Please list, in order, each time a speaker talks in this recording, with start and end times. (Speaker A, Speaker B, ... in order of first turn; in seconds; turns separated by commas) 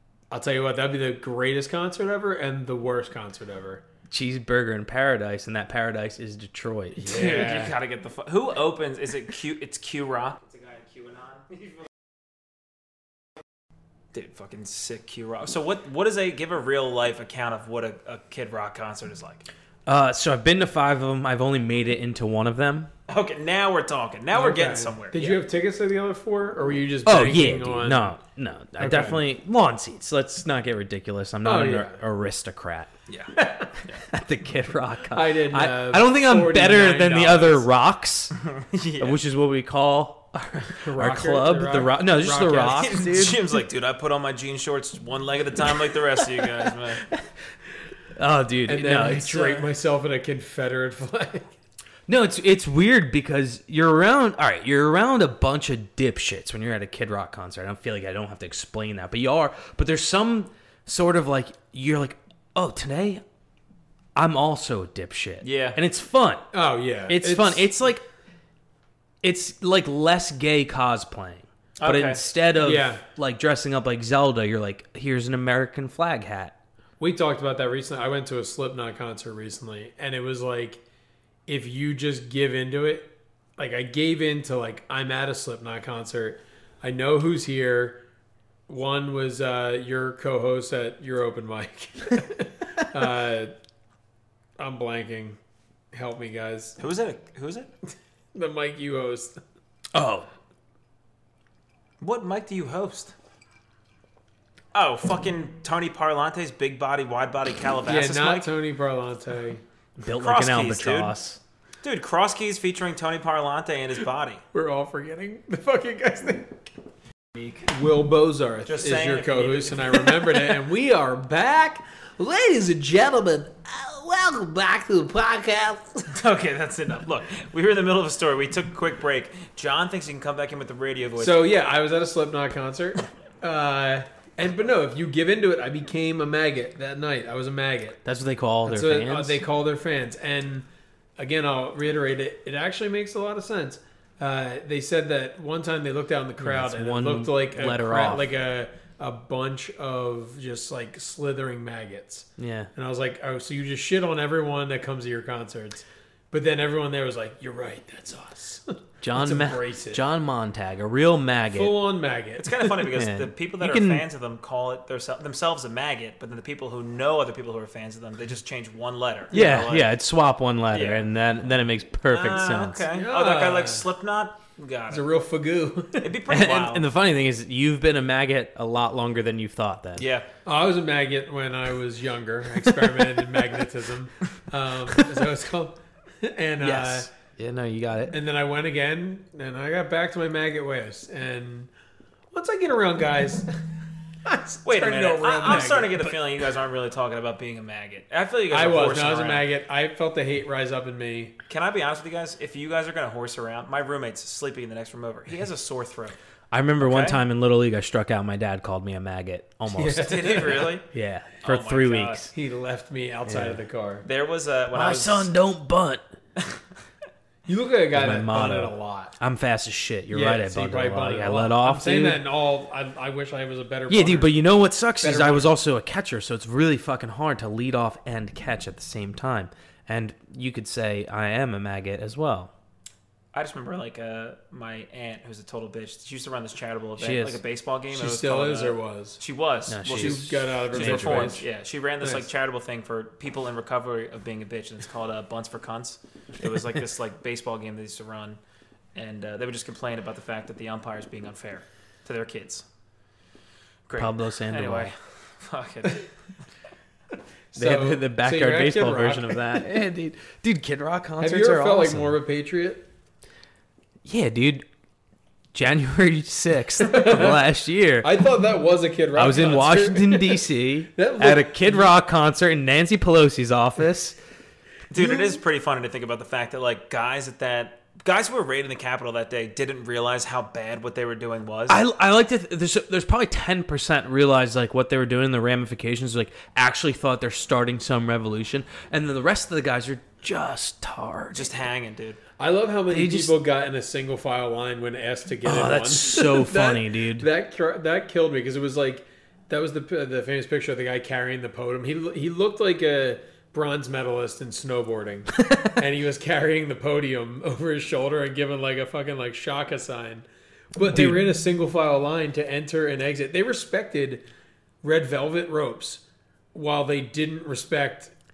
Speaker A: 0.3-3.8, Speaker B: 4.1-7.2, Speaker A: 7.0-7.7, Speaker C: 7.0-11.7, Speaker C: 14.1-19.5, Speaker B: 19.9-22.9, Speaker C: 23.1-25.4, Speaker A: 24.3-28.1, Speaker B: 27.0-32.9, Speaker A: 28.8-29.2, Speaker A: 31.4-32.0, Speaker A: 33.3-33.8, Speaker B: 33.9-38.4, Speaker A: 35.1-37.7, Speaker C: 38.5-39.2, Speaker B: 39.0-43.5, Speaker A: 40.7-43.2, Speaker C: 42.7-47.0, Speaker B: 48.1-49.6, Speaker A: 48.7-51.5, Speaker B: 52.1-63.2, Speaker B: 64.1-66.5, Speaker C: 65.4-65.8, Speaker A: 66.5-67.7, Speaker B: 67.1-68.0, Speaker B: 69.2-76.5, Speaker C: 71.8-72.2, Speaker A: 72.6-73.0, Speaker A: 77.0-80.8, Speaker A: 81.5-88.0, Speaker A: 88.7-93.5, Speaker A: 94.6-95.4, Speaker A: 95.9-96.8, Speaker C: 96.8-97.7, Speaker A: 98.3-99.4, Speaker B: 99.9-100.3, Speaker C: 102.0-103.1, Speaker C: 104.7-108.5, Speaker A: 107.8-109.6, Speaker B: 110.0-111.4, Speaker C: 110.1-111.1, Speaker C: 111.8-114.4, Speaker A: 114.5-116.7, Speaker C: 117.3-117.6, Speaker A: 117.6-126.1, Speaker C: 118.7-120.5, Speaker C: 126.1-131.5, Speaker A: 131.2-138.0, Speaker B: 138.0-139.4, Speaker A: 138.7-140.7, Speaker A: 141.2-160.0, Speaker B: 146.4-148.3, Speaker B: 152.4-152.7, Speaker B: 159.0-161.7, Speaker A: 161.5-162.9, Speaker C: 162.4-169.9, Speaker B: 162.9-164.0, Speaker B: 169.3-172.8, Speaker C: 170.7-171.0, Speaker C: 172.1-175.0, Speaker A: 172.9-173.8, Speaker A: 174.9-176.1, Speaker C: 176.0-176.9, Speaker B: 176.3-180.1, Speaker C: 180.0-180.3, Speaker A: 180.4-187.1, Speaker B: 186.6-188.1, Speaker A: 188.1-191.7, Speaker A: 192.3-193.5, Speaker A: 194.2-196.2, Speaker C: 194.7-199.5, Speaker A: 198.5-201.3, Speaker C: 201.5-206.2, Speaker B: 206.5-210.2, Speaker C: 206.8-207.2, Speaker A: 209.7-210.7, Speaker C: 210.0-210.8, Speaker B: 210.9-212.3, Speaker C: 211.4-212.3, Speaker A: 212.3-214.0, Speaker B: 213.2-213.6, Speaker C: 214.0-215.3, Speaker B: 214.7-216.0, Speaker A: 217.5-219.1, Speaker B: 217.9-222.2, Speaker A: 220.1-224.4, Speaker B: 223.9-232.5, Speaker A: 225.0-225.5, Speaker C: 233.3-248.4, Speaker B: 237.0-237.4, Speaker A: 237.9-239.2, Speaker B: 239.7-241.4, Speaker A: 239.9-241.4, Speaker C: 248.9-252.6, Speaker C: 253.9-256.1, Speaker B: 254.0-254.9, Speaker A: 257.5-259.4, Speaker B: 257.6-262.1, Speaker A: 261.2-262.8, Speaker B: 264.0-264.6, Speaker B: 265.5-268.1, Speaker A: 266.9-267.4, Speaker A: 268.0-271.9, Speaker B: 269.1-274.2, Speaker C: 274.9-281.8, Speaker A: 274.9-275.3, Speaker B: 281.7-291.5, Speaker C: 291.3-292.2, Speaker A: 292.4-314.2, Speaker B: 292.9-293.3, Speaker B: 295.4-297.3, Speaker B: 305.4-305.7, Speaker B: 310.9-311.2, Speaker A: 314.8-316.0, Speaker A: 316.5-318.1